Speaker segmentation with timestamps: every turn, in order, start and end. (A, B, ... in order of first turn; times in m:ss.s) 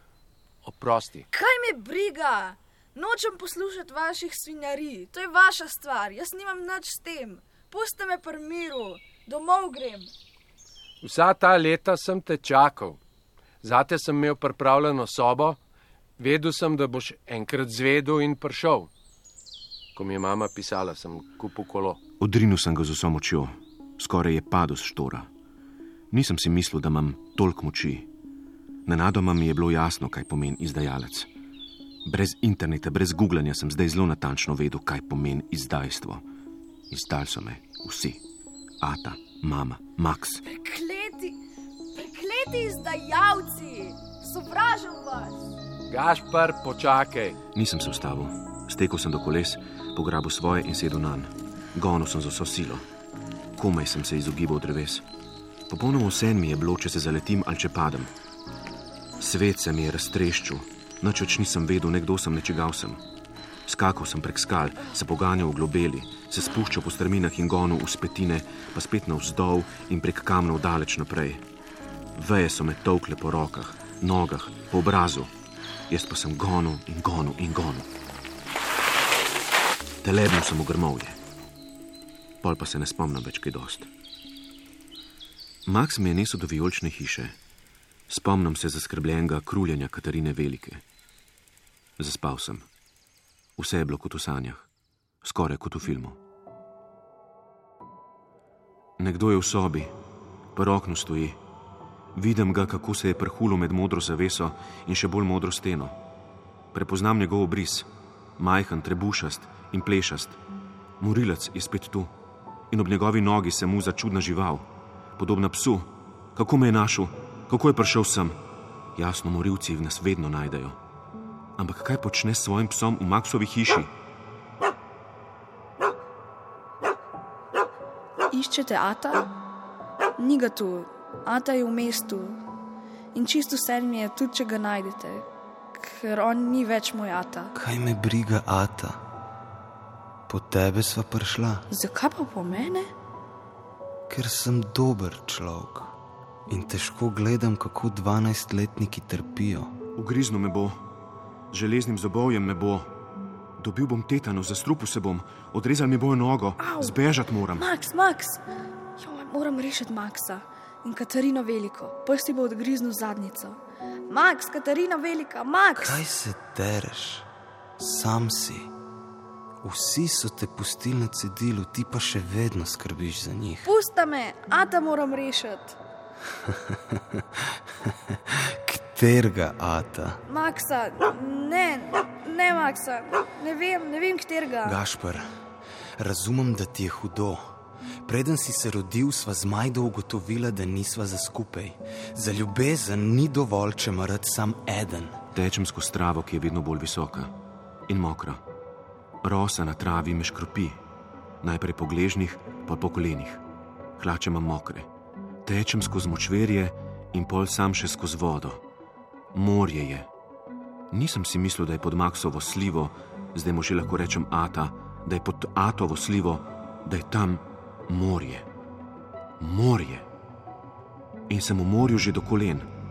0:00.6-0:01.3 A
0:01.3-0:10.1 B
0:11.0-0:13.0 A
0:13.6-0:15.6 A
0:16.2-0:18.9 A
0:20.0-0:22.0 A
0:22.2-0:25.3 C
0:26.1-0:28.1 C
0:28.9-0:31.3 C
0:32.0-0:36.2 C
0:36.9-0:38.2 C
0:38.8-0:40.4 C
0:40.4-0:41.4 B
0:41.9-0:45.5 B
0:45.9-0:47.4 A
0:47.6-0:52.9 C
0:53.6-0:55.0 C
0:55.7-0:58.1 C
0:59.2-1:03.0 C
1:03.7-1:11.4 C
1:12.2-1:15.3 C
1:15.9-1:17.9 C
1:20.0-1:21.2 C
1:22.4-1:23.9 C
1:25.7-1:27.4 C
1:28.1-1:30.8 C
1:32.0-1:32.7 C
1:33.6-1:34.7 C
1:35.2-1:36.2 C
1:39.0-1:40.0 C
1:40.6-1:41.4 C
1:42.1-1:46.0 C
1:46.7-1:50.4 C
1:51.0-1:52.1 C
1:52.7-1:58.4 C
1:59.0-2:00.8 C
2:01.6-2:03.9 C
2:08.3-2:09.3 B
2:10.2-2:12.4 B
2:13.1-2:17.5 B
2:17.6-2:19.0 D
2:20.3-2:21.6 D
2:21.7-2:22.9 B
2:24.1-2:25.9 D
2:26.5-2:29.7 D
2:30.0-2:30.8 C
2:31.5-2:32.9 C
2:33.6-2:37.7 C
2:36.6-2:37.0 B
2:37.6-2:38.4 B
2:39.0-2:46.0 B
2:45.8-2:47.3 D
2:47.8-2:48.7 D
2:49.6-2:53.7 D
2:53.6-2:55.8 B
2:56.5-3:00.2 D
3:00.3-3:04.8 B
3:04.6-3:05.4 D
3:06.0-3:15.2 D
3:15.3-3:17.3 C
3:17.9-3:18.4 C
3:19.2-3:20.8 C
3:21.4-3:23.4 C
3:24.0-3:24.9 C
3:25.4-3:28.6 C
3:29.3-3:30.1 C
3:30.9-3:38.5 C
3:39.4-3:40.1 C
3:41.3-3:42.7 C